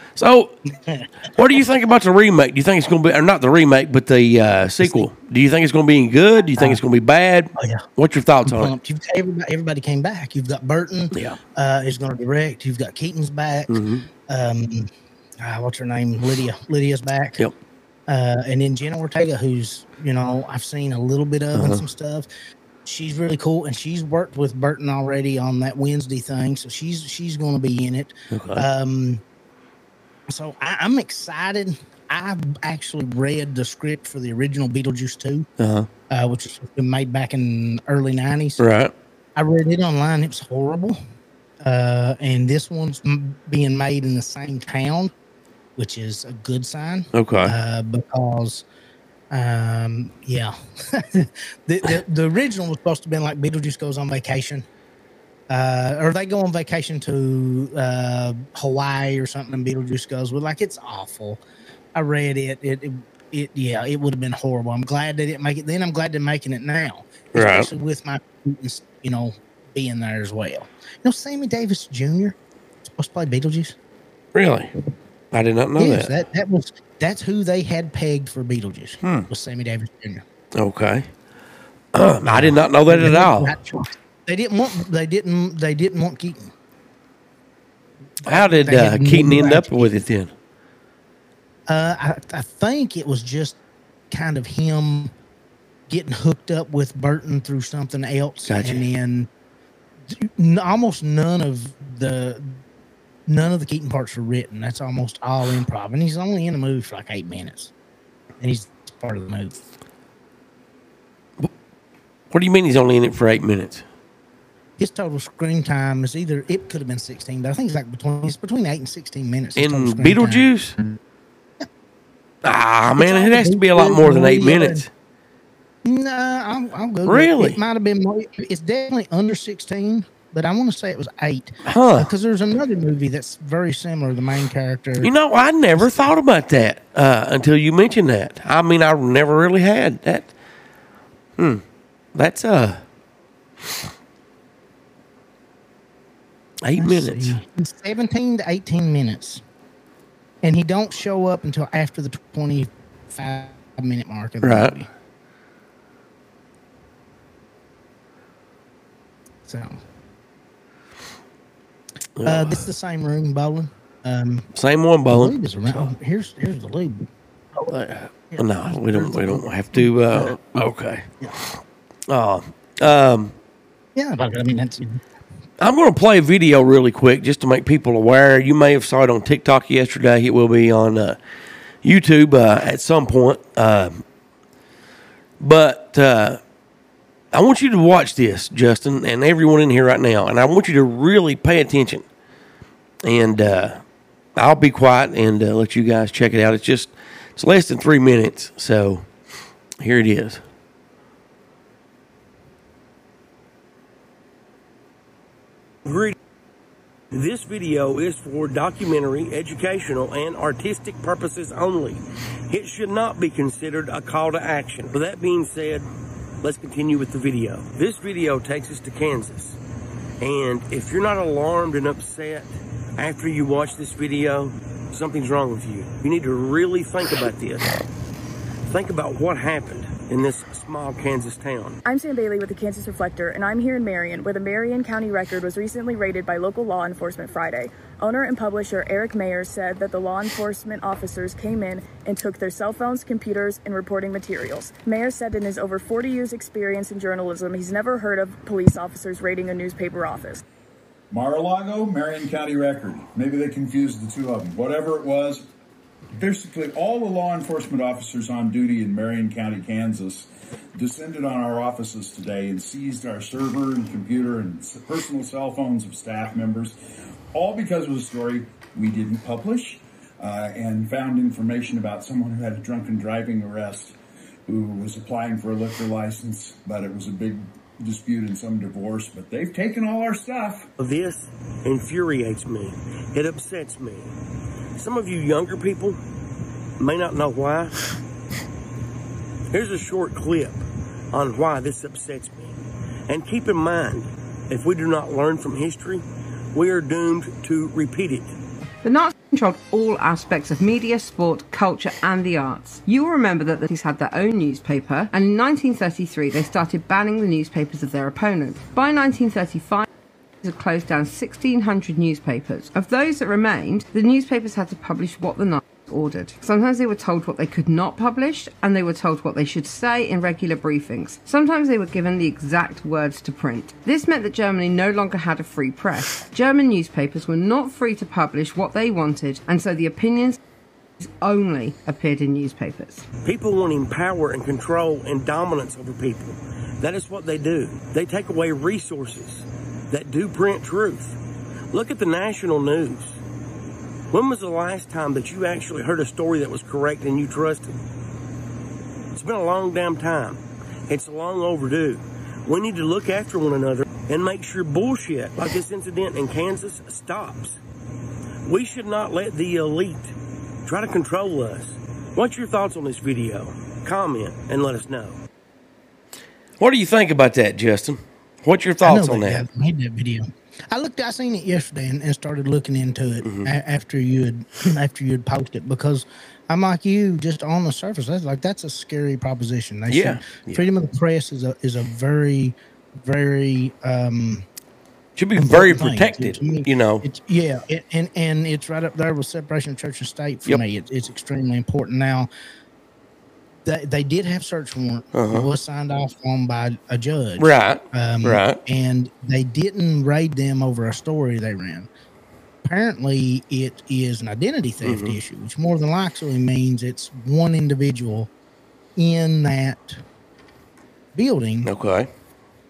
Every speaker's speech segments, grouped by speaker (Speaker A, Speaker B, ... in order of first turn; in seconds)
Speaker A: 0.1-0.6, 1.4-8.7, 11.1-11.4, 13.7-14.1, 21.5-21.8, 28.3-28.6, 35.6-35.9, 38.6-38.9, 47.1-47.5, 67.3-67.7, 74.3-74.7, 75.3-76.1, 79.0-79.3, 80.5-81.1, 81.9-83.5, 88.2-90.3, 98.5-98.8, 112.3-113.8, 119.5-120.8, 122.4-124.9, 127.0-127.6, 131.6-132.1, 135.0-140.3, 141.4-141.6, 142.1-142.8, 146.6-147.4, 154.4-154.7, 162.2-162.7, 164.5-165.9, 167.7-173.3, 175.6-181.2, 181.8-184.0, 185.4-186.4, 187.3-192.0, 193.0-193.8, 194.3-199.1, 199.8-200.4, 205.8-206.2, 207.1-215.9, 216.4-219.6, 220.2-227.8, 228.7-231.8, 280.8-284.1, 284.8-286.0, 286.8-287.8, 289.5-298.4, 333.2-341.2, 341.7-343.2, 344.1-347.7, 349.1-357.6, 358.4-360.1, 360.6-365.2, 366.6-369.4, 373.2-373.5, 379.9-380.6, 385.1-387.0, 395.1-395.5, 397.4-398.6, 404.8-405.2, 411.6-412.1
Speaker B: 0.7-1.1, 7.6-7.8, 8.4-13.8, 14.3-14.9, 15.4-17.4, 18.1-22.3, 22.8-29.2, 30.3-35.5, 36.1-38.6, 39.4-41.0, 41.6-45.1, 45.8-48.6, 49.3-54.6, 55.5-61.4, 62.0-73.8, 75.8-80.2, 82.2-86.5, 88.2-90.0, 91.7-93.6, 94.1-95.1, 95.9-99.3, 100.1-102.6, 103.3-107.7, 108.4-109.6, 114.8-121.0, 123.0-124.8, 125.8-135.1, 146.8-149.4, 150.4-154.9, 159.5-159.8, 162.2-164.5, 165.1-167.8, 168.3-170.4, 173.9-175.0, 368.8-384.4, 385.4-392.3, 393.6-401.9, 402.6-408.3, 409.0-410.0, 411.1-411.7
Speaker C: 231.8-250.4
Speaker D: 251.1-255.4, 256.1-266.7, 267.3-273.9, 274.5-280.6
Speaker E: 298.8-309.8, 310.4-330.4, 331.0-333.1